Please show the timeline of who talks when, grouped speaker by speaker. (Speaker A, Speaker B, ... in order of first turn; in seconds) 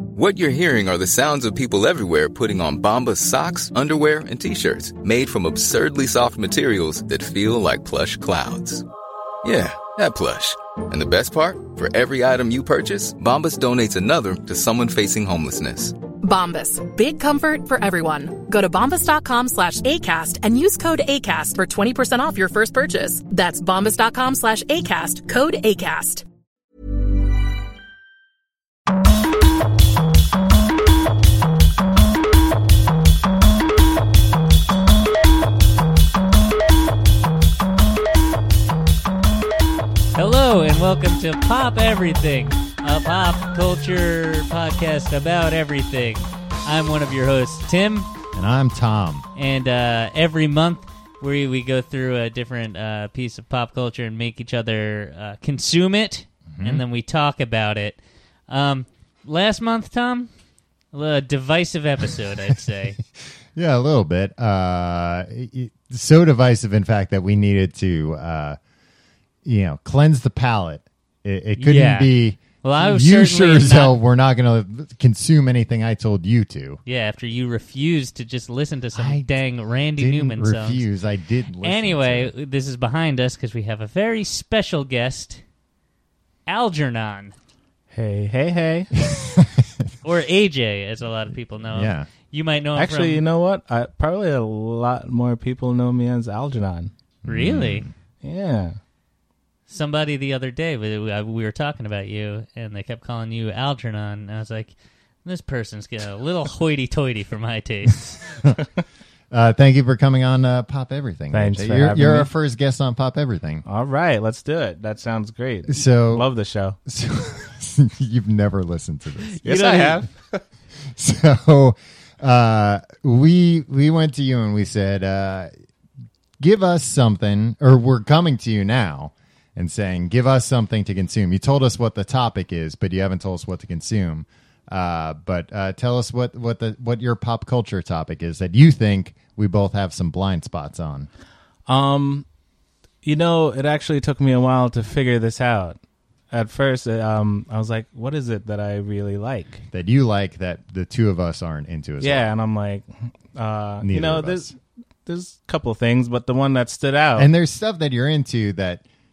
Speaker A: 0.1-8.8, 9.4-15.9
Speaker B: 16.2-26.2
Speaker C: 40.1-48.1, 49.3-60.3, 60.9-63.0, 71.6-74.0, 76.8-80.9, 81.6-85.4, 86.5-87.3, 90.0-93.2, 97.3-97.9, 99.7-108.3
Speaker D: 48.3-49.3, 56.5-56.8, 63.5-68.6, 69.5-76.8, 79.0-82.3, 91.6-92.1, 97.2-97.9, 109.3-113.6, 115.7-116.3, 116.9-120.0, 121.0-125.5, 126.4-141.1, 149.7-152.3, 153.8-154.5, 157.2-158.8
Speaker E: 87.9-88.9, 92.8-96.9, 98.2-98.8, 111.3-112.3, 113.6-116.8, 119.4-120.4, 141.7-142.2, 143.0-145.8, 146.3-149.6, 152.0-157.3